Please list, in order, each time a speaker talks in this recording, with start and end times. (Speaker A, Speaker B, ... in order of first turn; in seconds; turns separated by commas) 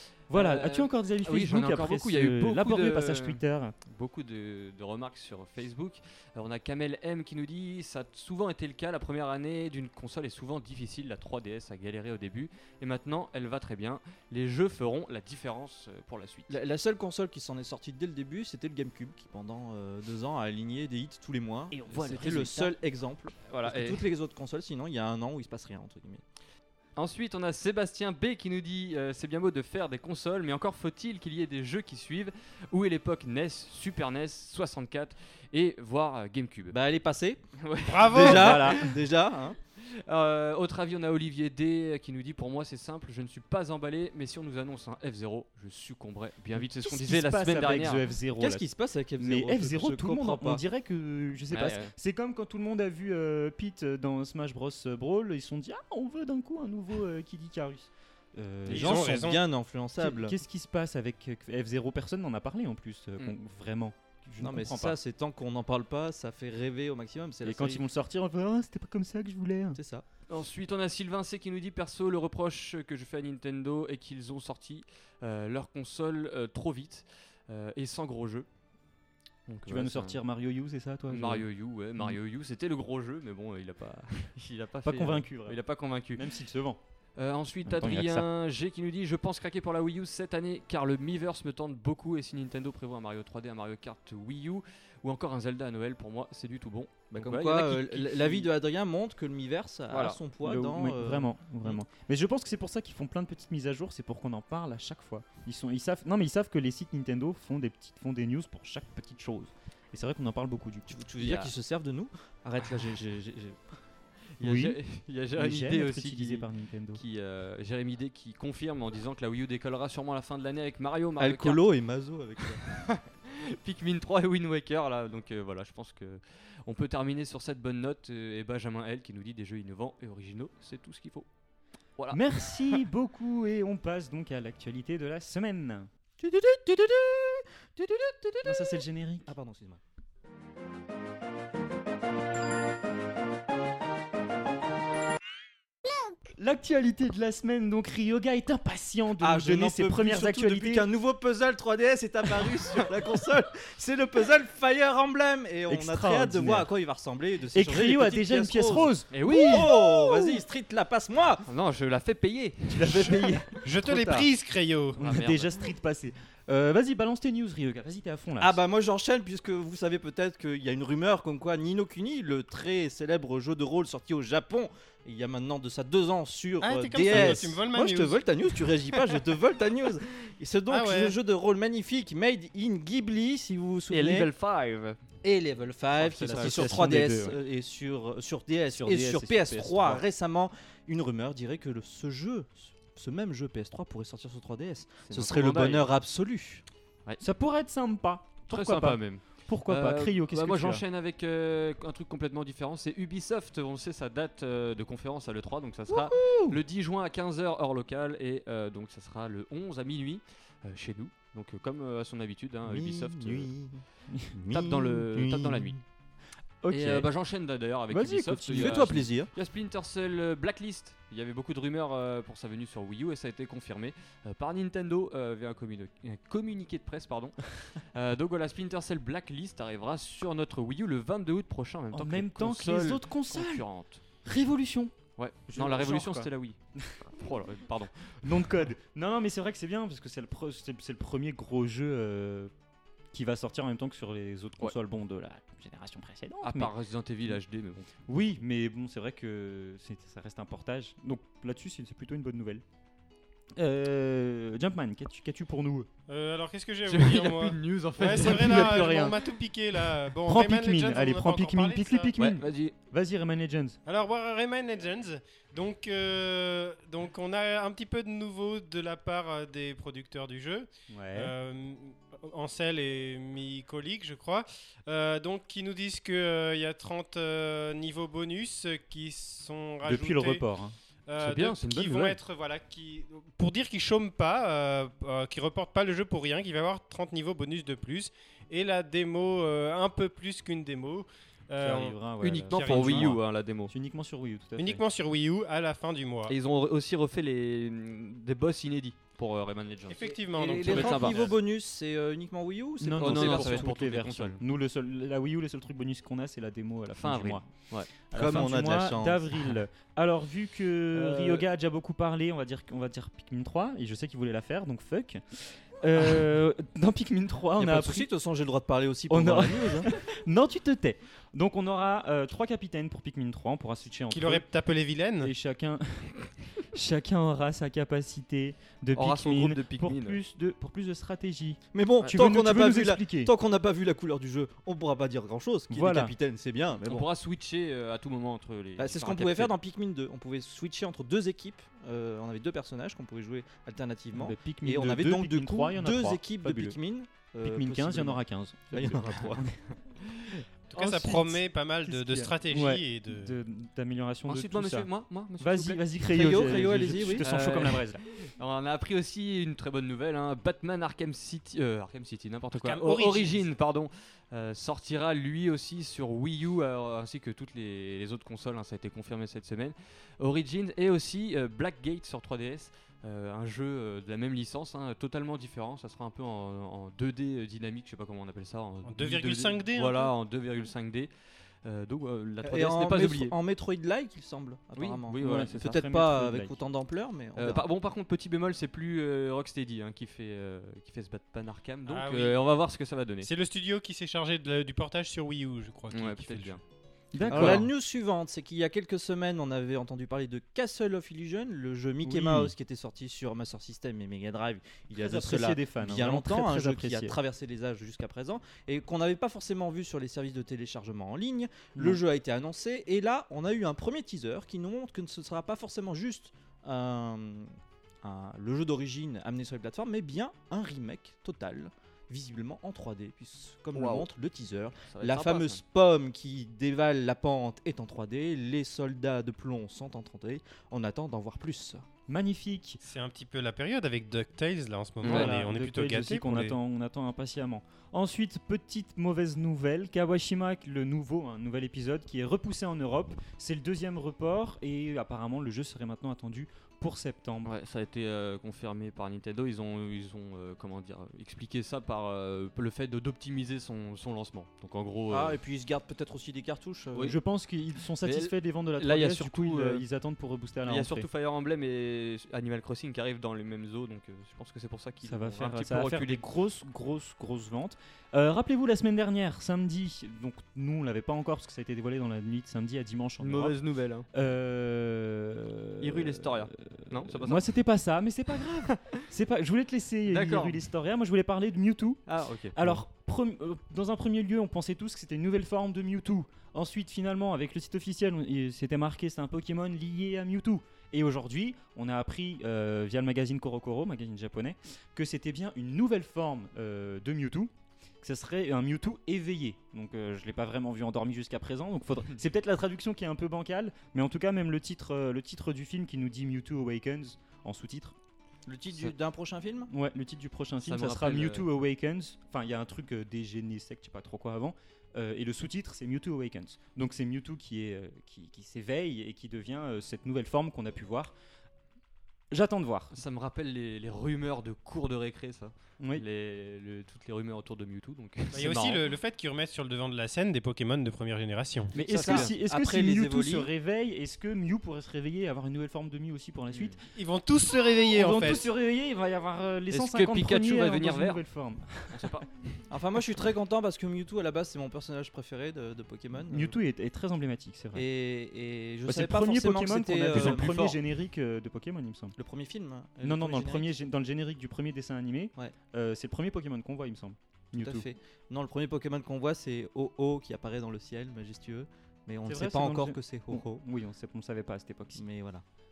Speaker A: 0.3-3.8, Speaker B: 0.3-16.6, Speaker C: 16.5-26.2, Speaker A: 21.7-22.7, Speaker B: 22.2-22.4, Speaker B: 23.4-24.1, Speaker B: 26.9-36.8, Speaker C: 36.7-37.4, Speaker B: 37.6-39.0, Speaker D: 37.9-38.6, Speaker C: 38.0-39.6, Speaker A: 38.2-38.9, Speaker B: 39.8-48.1, Speaker A: 46.8-48.7, Speaker C: 48.4-50.6, Speaker A: 49.2-59.3, Speaker B: 51.5-51.9, Speaker C: 58.7-60.4, Speaker D: 58.7-59.4, Speaker A: 60.0-65.0, Speaker C: 64.4-67.8, Speaker A: 67.4-69.8, Speaker C: 69.7-70.0, Speaker B: 70.3-78.5, Speaker B: 79.5-80.2, Speaker A: 79.7-81.5, Speaker B: 81.1-86.2, Speaker A: 84.8-86.8, Speaker B: 87.2-98.5, Speaker A: 87.7-88.3, Speaker C: 97.1-101.8, Speaker B: 99.9-100.2, Speaker A: 100.4-111.3, Speaker C: 110.9-113.6, Speaker B: 111.2-111.5, Speaker B: 114.4-121.6, Speaker A: 114.4-114.8, Speaker A: 115.3-117.0, Speaker C: 121.2-122.6, Speaker B: 122.4-131.3, Speaker B: 132.0-132.8, Speaker A: 132.1-135.9, Speaker C: 136.2-139.8, Speaker A: 138.4-139.3, Speaker A: 146.4-150.8, Speaker C: 149.2-161.4, Speaker A: 155.7-156.7, Speaker A: 157.5-160.4, Speaker B: 159.1-160.3, Speaker B: 161.4-163.5, Speaker A: 162.7-164.3, Speaker D: 163.6-165.0, Speaker A: 165.0-168.6, Speaker B: 165.0-165.6, Speaker C: 168.4-184.3, Speaker D: 176.6-178.2, Speaker A: 177.1-177.4, Speaker D: 180.7-181.2, Speaker B: 183.9-185.0, Speaker C: 185.2-196.6, Speaker A: 186.0-187.4, Speaker B: 186.1-186.8, Speaker A: 188.7-190.0, Speaker B: 195.1-195.9, Speaker A: 197.2-200.8, Speaker B: 198.5-213.5, Speaker C: 205.9-206.6, Speaker C: 212.7-215.7, Speaker B: 214.5-215.8, Speaker A: 216.6-217.1, Speaker B: 216.7-234.0, Speaker A: 217.9-219.1, Speaker C: 218.5-219.3, Speaker A: 231.9-233.7, Speaker A: 234.2-234.9, Speaker B: 235.2-238.5, Speaker A: 235.5-237.1, Speaker A: 238.2-242.5, Speaker A: 243.1-246.7, Speaker B: 246.4-247.9, Speaker A: 248.1-252.6, Speaker A: 253.6-255.9, Speaker D: 256.1-262.1, Speaker B: 256.9-259.0, Speaker A: 258.1-259.2, Speaker A: 260.2-263.8, Speaker B: 262.2-262.7, Speaker D: 263.9-280.4, Speaker A: 270.9-271.3, Speaker A: 279.8-280.7, Speaker D: 281.1-292.0, Speaker B: 281.2-282.2, Speaker A: 291.6-294.8, Speaker B: 292.2-293.7, Speaker D: 292.5-293.2, Speaker D: 294.6-296.3, Speaker B: 296.3-301.4, Speaker D: 299.9-301.3, Speaker C: 300.4-303.7, Speaker A: 302.8-307.4, Speaker B: 303.0-304.4, Speaker B: 306.9-307.9, Speaker A: 308.1-318.1, Speaker C: 308.1-309.3, Speaker B: 310.9-311.4, Speaker C: 317.6-319.9, Speaker A: 319.1-324.4, Speaker D: 324.1-325.3, Speaker A: 325.2-333.3, Speaker B: 328.9-330.2, Speaker C: 331.7-337.1, Speaker A: 335.7-336.1, Speaker B: 336.8-339.5, Speaker C: 338.8-348.2, Speaker A: 344.1-346.8, Speaker A: 347.4-349.6, Speaker C: 348.7-349.4, Speaker B: 349.0-349.3, Speaker D: 350.7-353.3, Speaker A: 350.7-358.1, Speaker B: 354.3-381.1, Speaker C: 356.1-357.7, Speaker D: 362.5-363.4, Speaker D: 378.8-380.1, Speaker B: 381.6-383.4, Speaker C: 382.4-387.6, Speaker B: 384.8-385.8, Speaker A: 385.2-386.6, Speaker B: 387.4-393.3, Speaker D: 391.9-392.4, Speaker D: 393.2-396.6, Speaker B: 395.9-396.6, Speaker A: 397.1-397.7, Speaker B: 397.2-397.7, Speaker C: 397.3-417.5, Speaker A: 402.0-402.5, Speaker A: 404.9-407.2, Speaker C: 418.0-431.8, Speaker B: 423.7-424.1, Speaker B: 424.9-425.6, Speaker A: 432.1-432.8, Speaker D: 432.8-436.5, Speaker B: 435.0-435.4, Speaker A: 435.0-447.5, Speaker B: 447.4-455.4, Speaker C: 455.1-457.1, Speaker A: 457.0-461.1, Speaker B: 458.0-459.8, Speaker B: 460.6-466.2, Speaker A: 465.0-473.6, Speaker B: 473.2-474.1, Speaker A: 474.1-482.0, Speaker B: 475.8-477.5, Speaker B: 480.1-480.6, Speaker B: 482.1-482.8, Speaker A: 482.5-497.5, Speaker A: 498.0-507.9, Speaker C: 508.5-509.7, Speaker A: 509.7-521.1, Speaker B: 510.6-511.4, Speaker A: 522.3-523.0, Speaker B: 522.9-528.9, Speaker D: 528.3-531.8, Speaker A: 531.7-536.8, Speaker B: 531.7-532.3, Speaker C: 531.9-533.5, Speaker B: 536.5-536.8, Speaker D: 536.9-538.5, Speaker A: 537.9-542.1, Speaker B: 539.7-541.2, Speaker B: 541.9-542.6, Speaker C: 542.7-546.5, Speaker A: 546.3-547.8, Speaker C: 547.7-550.7, Speaker A: 548.8-552.1, Speaker B: 550.1-550.8, Speaker C: 552.1-553.7, Speaker A: 553.0-557.9, Speaker C: 557.5-563.6, Speaker A: 562.2-565.0, Speaker C: 564.9-565.4